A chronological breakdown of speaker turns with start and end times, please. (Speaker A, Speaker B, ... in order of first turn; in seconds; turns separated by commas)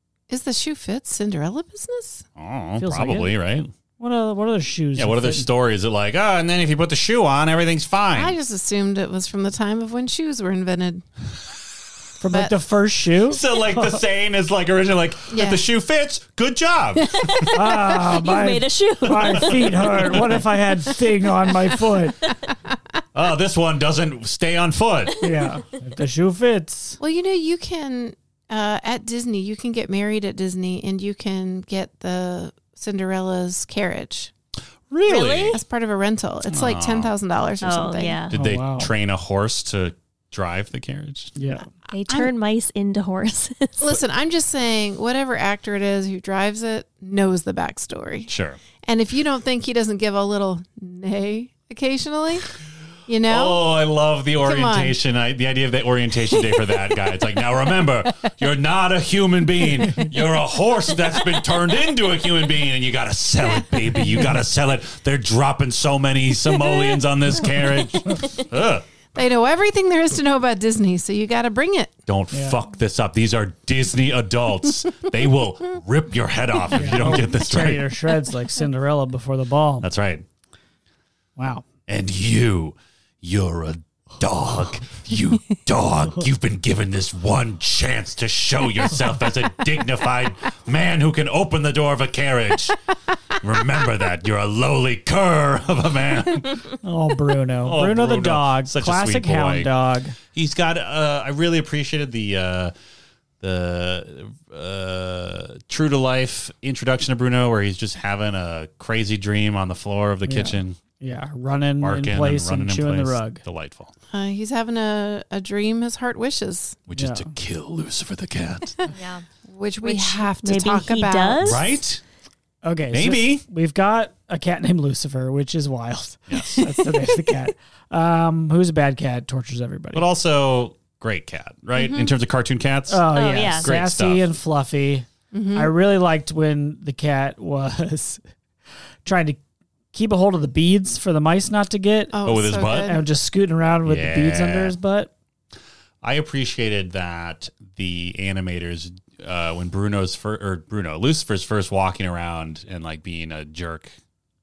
Speaker A: 0.3-2.2, Speaker B: 2.4-3.7, Speaker C: 2.8-3.3, Speaker C: 4.0-5.5, Speaker B: 5.0-8.3, Speaker A: 8.1-11.1, Speaker C: 12.2-14.0, Speaker B: 13.3-17.5, Speaker A: 15.3-15.6, Speaker D: 17.2-20.2, Speaker C: 17.5-22.3, Speaker B: 19.1-20.4, Speaker B: 23.1-25.2, Speaker D: 25.2-25.5, Speaker C: 25.2-27.0, Speaker A: 27.0-34.3, Speaker B: 34.9-35.6, Speaker D: 35.1-35.6, Speaker A: 35.5-38.2, Speaker B: 36.5-37.1, Speaker D: 37.6-38.3, Speaker B: 38.3-41.4, Speaker C: 38.3-38.9, Speaker C: 41.4-41.7, Speaker D: 41.9-44.0, Speaker A: 43.8-48.3, Speaker B: 48.3-48.6, Speaker A: 48.8-52.5, Speaker A: 53.1-53.6, Speaker B: 53.3-68.8, Speaker A: 54.4-55.0, Speaker A: 69.1-72.0, Speaker B: 72.1-77.9, Speaker C: 72.3-72.6, Speaker C: 76.7-79.9, Speaker B: 79.8-80.3, Speaker C: 81.4-81.6, Speaker B: 81.9-92.8, Speaker B: 93.4-96.7, Speaker C: 96.8-100.2, Speaker B: 97.6-99.7, Speaker B: 100.3-102.7, Speaker B: 103.4-110.8, Speaker C: 110.2-113.4, Speaker B: 111.8-113.9, Speaker A: 114.1-116.8, Speaker B: 116.9-118.8, Speaker C: 117.0-117.3, Speaker D: 118.9-119.2, Speaker A: 119.5-121.6, Speaker D: 119.8-121.7, Speaker B: 121.4-122.0, Speaker C: 122.6-130.1, Speaker B: 122.9-123.4, Speaker B: 126.3-126.7, Speaker B: 129.9-134.3, Speaker A: 131.8-132.1, Speaker C: 132.9-138.2, Speaker D: 133.1-133.7, Speaker A: 135.3-135.7, Speaker C: 139.1-139.4, Speaker C: 139.9-145.1, Speaker A: 142.1-143.0, Speaker B: 142.2-143.0, Speaker B: 143.9-144.8, Speaker B: 146.0-154.0